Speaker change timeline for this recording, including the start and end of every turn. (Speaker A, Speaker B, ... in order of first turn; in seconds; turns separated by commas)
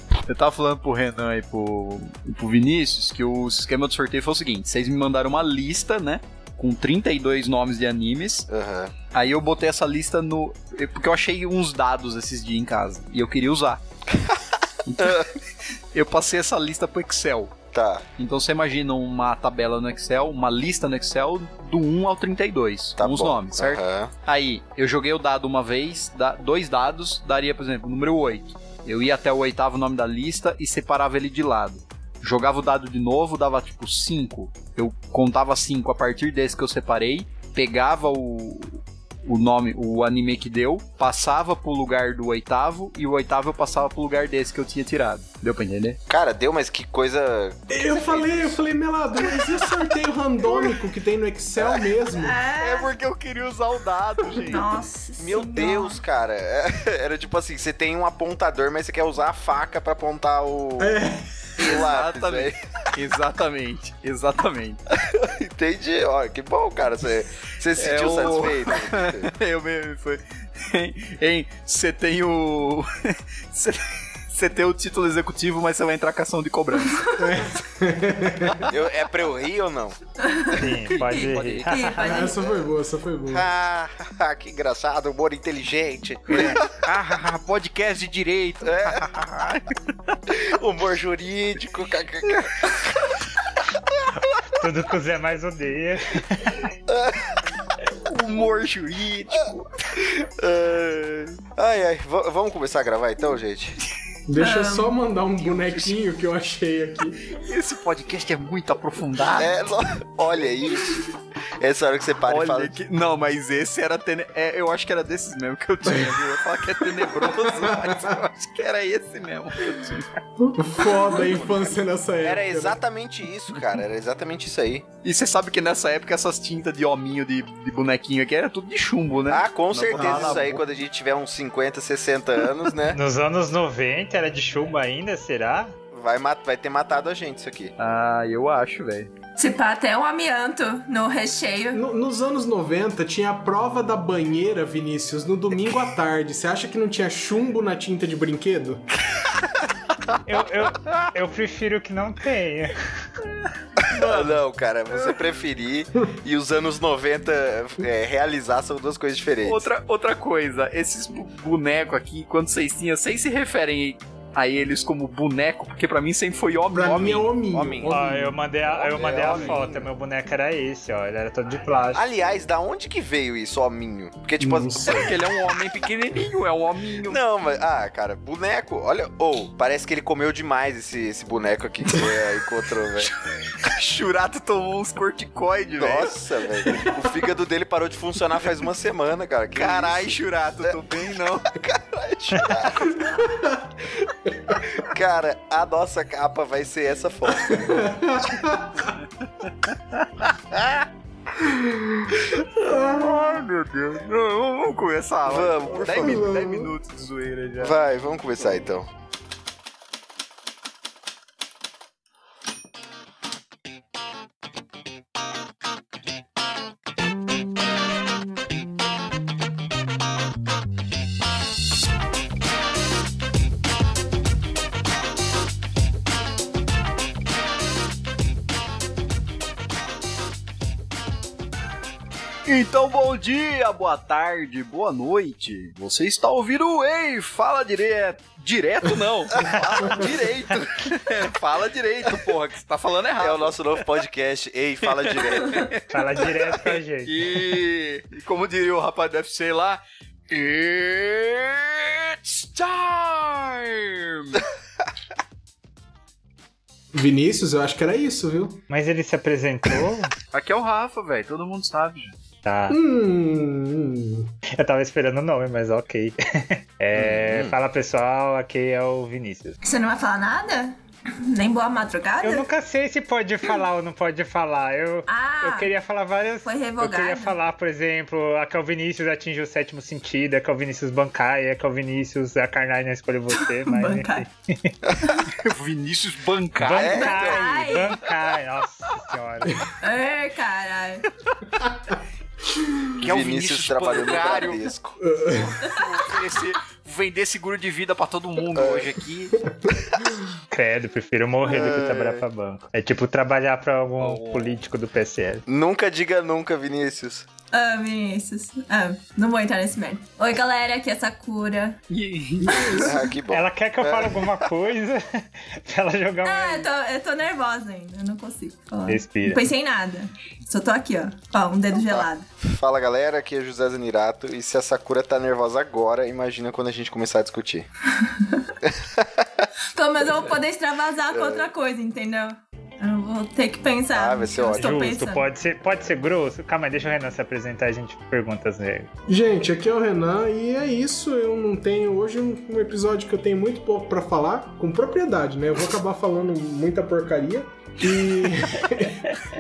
Speaker A: 0.3-8.5, Speaker B: 8.5-8.9, Speaker A: 9.1-13.8, Speaker B: 14.1-14.4, Speaker A: 14.9-15.4, Speaker B: 15.0-15.3, Speaker A: 15.9-17.6, Speaker B: 17.7-18.0, Speaker A: 18.2-46.0, Speaker B: 23.0-24.1, Speaker B: 46.1-48.5, Speaker C: 47.7-52.4, Speaker D: 52.2-53.0, Speaker A: 52.6-54.9, Speaker D: 54.3-56.0, Speaker B: 55.2-61.0, Speaker C: 60.8-61.6, Speaker B: 61.6-62.5, Speaker A: 61.6-64.8, Speaker B: 65.0-69.3, Speaker A: 67.8-77.1, Speaker C: 77.2-78.7, Speaker B: 78.6-80.0, Speaker D: 80.2-82.4, Speaker E: 80.6-82.1, Speaker A: 81.0-81.9, Speaker C: 82.0-83.5, Speaker B: 82.4-82.7, Speaker B: 83.3-86.6, Speaker A: 86.3-90.2, Speaker B: 88.6-89.0, Speaker B: 90.3-93.1, Speaker E: 94.5-96.7, Speaker B: 96.9-97.4, Speaker A: 98.1-99.9, Speaker B: 100.0-103.8, Speaker C: 104.3-107.3, Speaker D: 104.4-104.9, Speaker A: 105.4-106.0, Speaker A: 107.3-109.5, Speaker B: 109.4-112.7, Speaker A: 112.2-120.1, Speaker C: 117.6-118.2, Speaker C: 120.4-122.8, Speaker B: 122.2-124.9, Speaker A: 125.0-130.6, Speaker B: 129.3-133.0, Speaker C: 129.9-130.5, Speaker E: 132.9-135.8, Speaker B: 135.9-137.7, Speaker A: 137.8-139.1, Speaker D: 139.4-141.8, Speaker C: 141.7-148.9, Speaker E: 150.2-152.8, Speaker A: 153.8-154.4, Speaker B: 154.0-159.7, Speaker A: 159.4-167.3, Speaker C: 166.7-168.4, Speaker B: 167.5-168.0, Speaker E: 167.9-172.0, Speaker B: 168.7-169.8, Speaker A: 169.2-169.6, Speaker B: 171.9-175.0, Speaker C: 174.4-175.2, Speaker A: 174.8-177.2, Speaker B: 177.0-183.1, Speaker A: 183.0-186.8, Speaker B: 185.8-190.1, Speaker A: 189.5-191.5, Speaker B: 191.5-193.1, Speaker C: 193.1-193.7, Speaker B: 194.8-197.9, Speaker C: 197.3-198.9, Speaker C: 201.4-203.4, Speaker A: 202.6-207.8, Speaker B: 205.2-206.3, Speaker C: 205.9-206.8, Speaker B: 207.6-208.9, Speaker A: 232.5-244.0, Speaker B: 239.5-240.0, Speaker B: 243.2-245.6, Speaker A: 244.8-254.4, Speaker E: 245.9-247.6, Speaker C: 256.9-258.6, Speaker E: 258.7-260.1, Speaker A: 260.3-262.1, Speaker E: 262.4-262.8, Speaker C: 262.7-264.3, Speaker E: 264.5-269.6, Speaker B: 266.9-267.5, Speaker D: 269.6-272.5, Speaker E: 272.2-284.8, Speaker D: 275.1-275.7, Speaker D: 276.4-277.4, Speaker D: 283.3-284.3, Speaker B: 284.9-285.1, Speaker D: 285.0-285.3, Speaker A: 285.3-286.9, Speaker E: 286.6-289.6, Speaker B: 286.7-287.5, Speaker D: 286.8-288.0, Speaker D: 289.8-291.1, Speaker C: 292.6-292.9, Speaker A: 293.0-294.7, Speaker B: 293.0-295.1, Speaker C: 295.0-295.7, Speaker A: 295.7-299.4, Speaker B: 298.5-298.9, Speaker C: 299.4-299.7, Speaker E: 300.5-305.4, Speaker B: 301.4-302.2, Speaker A: 304.0-304.6, Speaker B: 305.5-307.3, Speaker D: 307.5-311.8, Speaker A: 311.9-312.9, Speaker C: 312.5-312.8, Speaker B: 312.8-314.4, Speaker E: 313.3-316.7, Speaker D: 316.2-322.3, Speaker E: 318.9-319.4, Speaker B: 321.7-327.7, Speaker D: 328.0-328.5, Speaker B: 328.6-329.5, Speaker D: 329.7-335.3, Speaker B: 331.1-331.5, Speaker B: 333.9-335.0, Speaker E: 334.6-338.9, Speaker C: 339.1-349.1